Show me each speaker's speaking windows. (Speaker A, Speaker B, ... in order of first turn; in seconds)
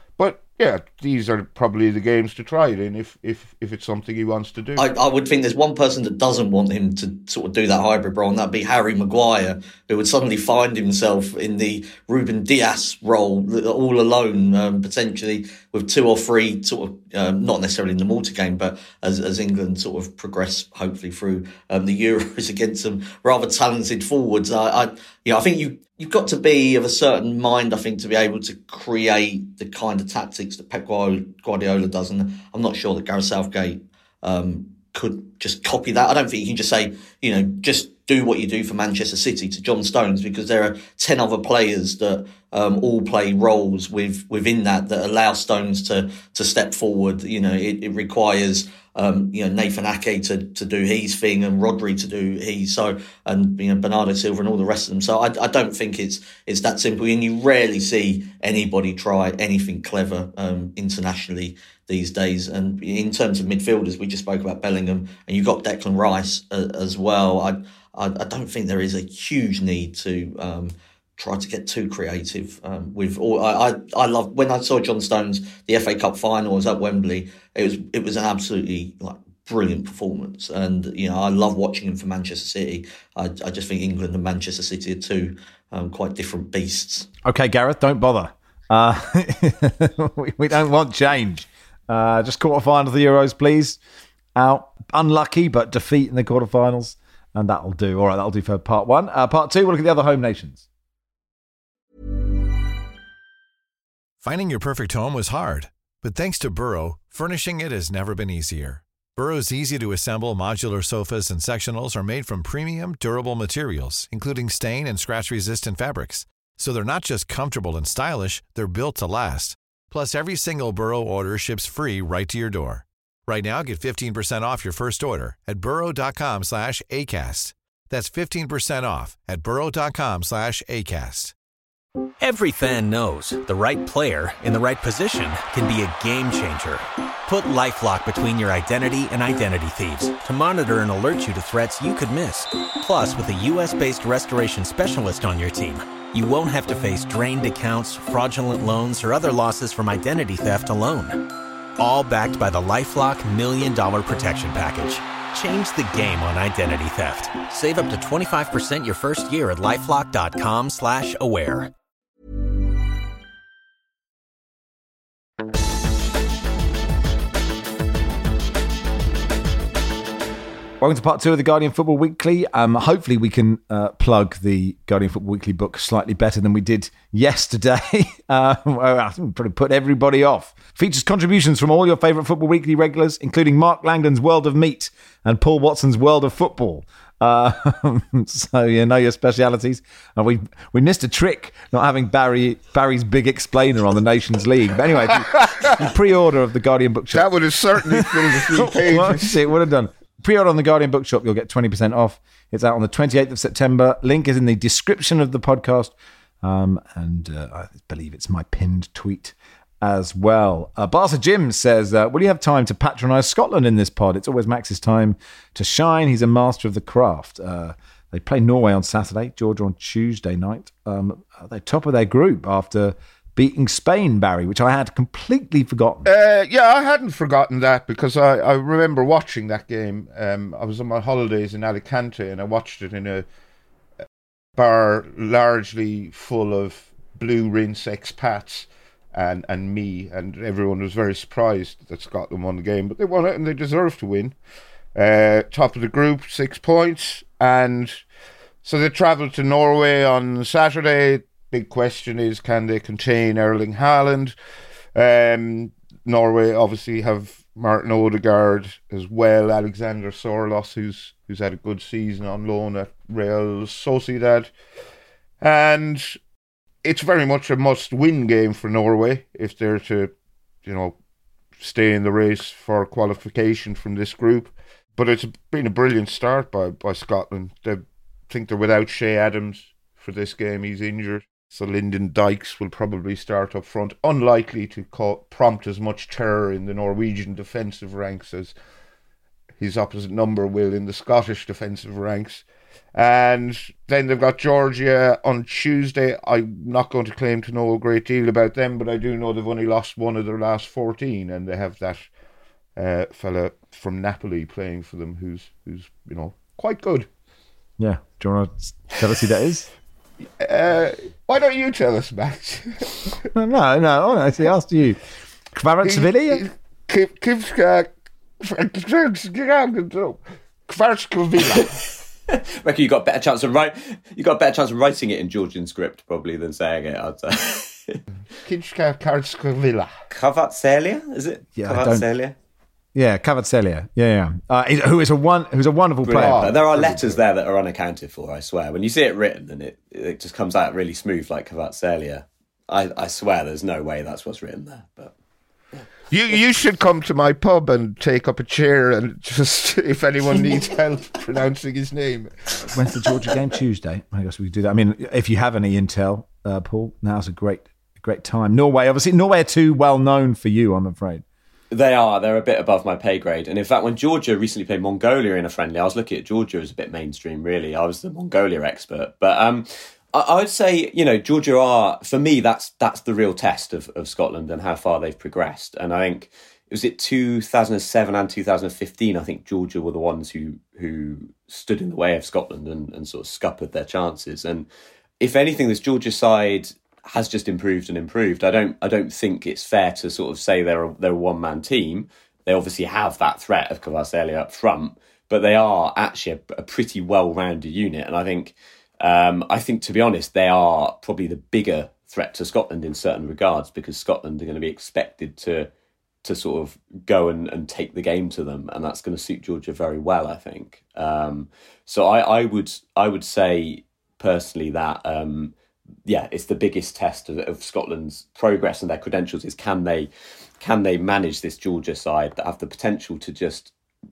Speaker A: 0.2-4.8, 197.1-199.4, 226.1-233.2, 234.6-244.4, 244.9-248.0, 248.6-254.3, 254.9-264.5, 265.4-266.2, 266.8-270.1, 270.6-270.9, 271.6-288.5, 289.6-302.1, 302.8-307.1, 310.4-313.2, 315.9-321.8, 328.4-329.9, 336.1-337.2, 346.1-352.6
Speaker B: 4.8-87.1
Speaker C: 87.2-93.8, 94.3-100.6, 170.8-226.1, 307.8-309.7, 313.3-315.0, 315.5-316.4, 331.6-332.0, 332.9-336.5, 352.6-361.2
Speaker D: 104.2-131.3
Speaker E: 132.2-151.2, 151.8-161.7
Speaker F: 322.3-328.0, 330.1-332.4, 336.0-345.1, 361.7-384.7, 385.2-405.7, 406.2-415.5, 416.1-420.1, 420.6-423.7